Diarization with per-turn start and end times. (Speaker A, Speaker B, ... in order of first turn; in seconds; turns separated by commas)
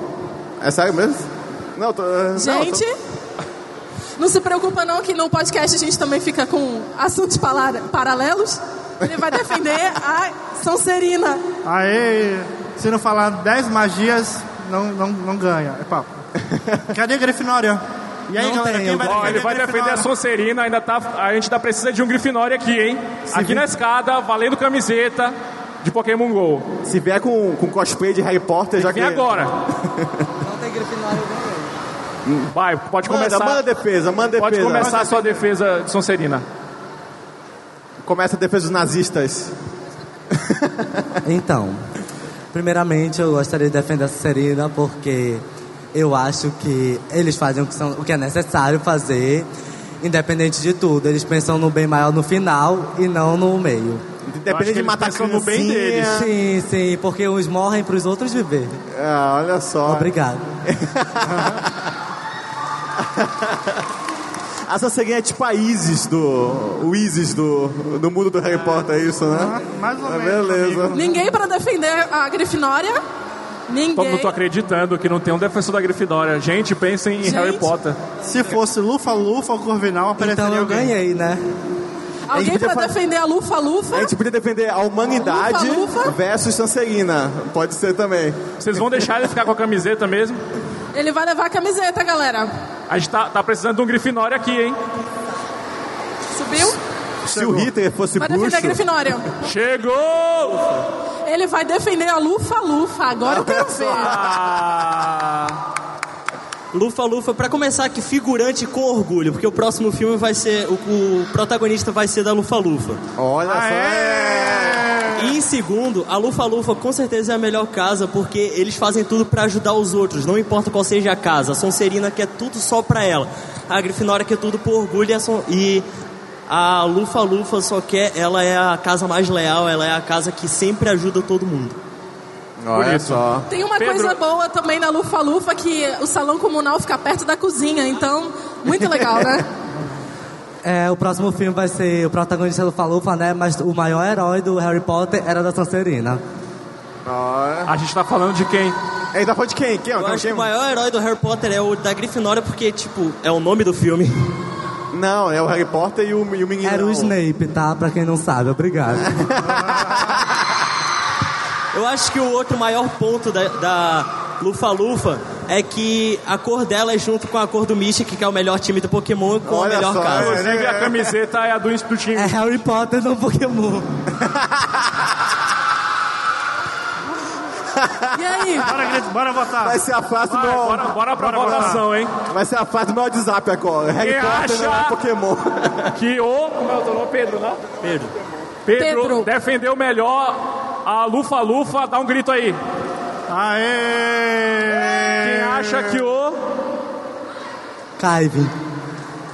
Speaker A: 0.6-2.8, Speaker B: 2.3-3.0, Speaker B: 4.2-11.4, Speaker C: 11.6-16.1, Speaker C: 16.9-20.1, Speaker D: 18.3-19.4, Speaker E: 19.0-26.7, Speaker A: 23.3-23.7, Speaker A: 26.8-30.1, Speaker E: 28.8-29.6, Speaker D: 30.4-31.7, Speaker E: 32.5-33.6, Speaker A: 33.1-35.2, Speaker E: 34.4-36.4, Speaker C: 34.9-35.4, Speaker A: 38.0-39.5, Speaker A: 40.3-41.0, Speaker D: 41.2-41.8, Speaker D: 42.5-45.4, Speaker D: 45.9-49.5, Speaker D: 50.0-54.0, Speaker A: 54.2-56.3, Speaker E: 54.5-56.2, Speaker D: 56.1-58.8, Speaker A: 58.9-60.1, Speaker D: 59.8-60.5, Speaker A: 60.7-61.7, Speaker A: 63.0-63.5, Speaker A: 64.7-70.9, Speaker C: 69.3-71.2, Speaker B: 70.9-73.0, Speaker B: 73.7-74.3, Speaker E: 73.9-78.0, Speaker B: 77.2-77.7, Speaker C: 78.2-80.9, Speaker D: 80.2-81.4, Speaker B: 82.3-84.1, Speaker A: 82.3-82.9, Speaker A: 83.9-88.4, Speaker B: 85.2-86.1, Speaker E: 88.6-90.4, Speaker B: 90.9-92.5, Speaker E: 92.9-94.8, Speaker B: 96.3-96.8, Speaker A: 97.2-98.8, Speaker C: 97.3-97.7, Speaker B: 98.2-99.3, Speaker E: 99.4-100.7, Speaker B: 101.2-104.2, Speaker A: 103.2-104.2, Speaker E: 103.9-105.6, Speaker F: 106.7-113.0, Speaker A: 113.2-114.9, Speaker C: 113.5-115.3, Speaker F: 115.2-125.8, Speaker F: 126.5-131.8, Speaker A: 132.6-133.5, Speaker E: 132.7-134.2, Speaker B: 133.5-139.4, Speaker A: 138.8-139.3, Speaker D: 140.6-146.2, Speaker A: 147.0-147.7, Speaker E: 147.7-148.8, Speaker A: 149.1-150.5, Speaker F: 149.9-154.2, Speaker A: 154.9-157.1, Speaker D: 156.6-159.1, Speaker A: 159.2-160.2, Speaker C: 159.5-159.9, Speaker F: 161.7-170.4, Speaker A: 169.4-171.1, Speaker E: 170.1-172.3, Speaker D: 172.1-173.9, Speaker A: 177.7-178.7, Speaker B: 178.2-178.7, Speaker C: 178.7-179.8, Speaker A: 179.6-180.9, Speaker E: 180.2-182.1, Speaker C: 181.2-181.9, Speaker A: 182.3-185.9, Speaker E: 184.0-185.0, Speaker E: 185.9-187.8, Speaker F: 187.8-188.1, Speaker E: 188.7-192.6, Speaker B: 188.8-189.3, Speaker C: 193.3-195.5, Speaker E: 195.2-196.4, Speaker D: 198.0-198.5